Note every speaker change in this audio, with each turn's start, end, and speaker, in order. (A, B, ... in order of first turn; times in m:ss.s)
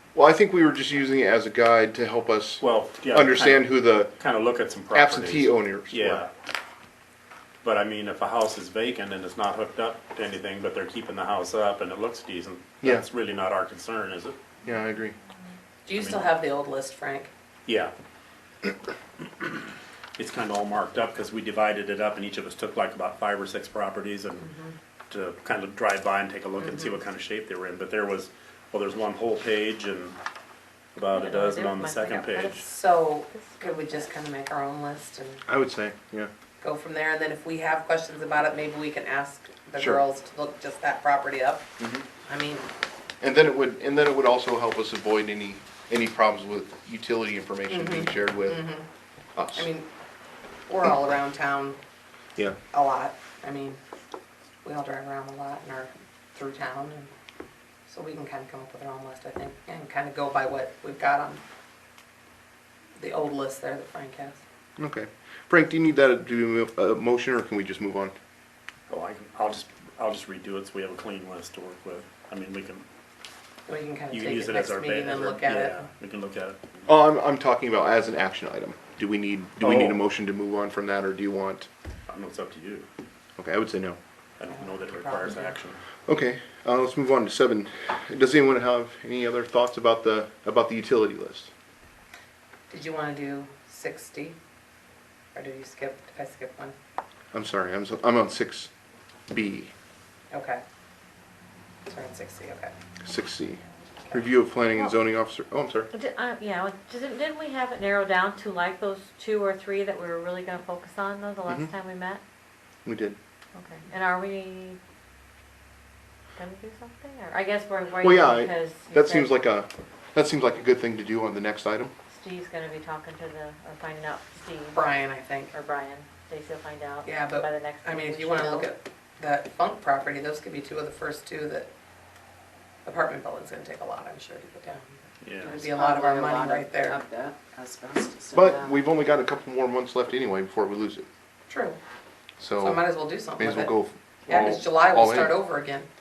0:00.1-0:04.1 A
0:02.6-0:06.3 B
0:04.9-0:06.2 A
0:07.6-0:14.4 B
0:14.6-0:15.1 A
0:15.8-0:17.3 C
0:15.9-0:16.3 B
0:17.6-0:17.9 B
0:20.2-0:24.4 B
0:24.4-0:24.7 C
0:25.1-0:30.2 B
0:26.6-0:26.9 C
0:30.9-0:32.6 B
0:31.1-0:32.6 D
0:32.4-0:35.4 C
0:33.3-0:34.1 D
0:35.4-0:36.3 A
0:36.6-0:41.7 C
0:39.8-0:40.0 A
0:41.8-0:42.0 A
0:42.2-0:42.6 C
0:43.2-0:48.7 A
0:47.7-0:48.8 C
0:49.4-0:49.7 A
0:49.5-0:49.9 C
0:50.7-0:51.8 C
0:52.7-0:53.8 C
0:54.6-0:57.1 C
0:57.9-1:01.4 C
1:03.0-1:04.4 C
1:04.8-1:08.1 A
1:08.9-1:12.8 B
1:13.7-1:15.8 C
1:14.1-1:16.8 B
1:16.8-1:21.7 A
1:19.6-1:20.0 B
1:22.1-1:22.9 B
1:23.4-1:24.0 A
1:24.4-1:25.8 B
1:24.5-1:25.6 C
1:26.0-1:31.5 A
1:32.7-1:34.4 C
1:35.3-1:36.7 C
1:37.3-1:38.7 A
1:39.3-1:39.7 A
1:40.3-1:40.6 C
1:41.9-1:42.7 C
1:43.0-1:45.9 A
1:45.9-1:52.2 D
1:52.8-1:53.2 A
1:53.5-1:54.8 D
1:56.4-1:59.4 D
1:58.0-2:01.9 A
2:02.1-2:04.9 D
2:04.7-2:05.5 C
2:05.5-2:08.7 D
2:07.0-2:11.7 C
2:12.8-2:17.0 C
2:15.2-2:15.6 B
2:15.5-2:18.8 E
2:18.3-2:21.1 A
2:21.5-2:21.8 C
2:22.4-2:25.4 A
2:22.6-2:25.9 C
2:24.3-2:24.5 B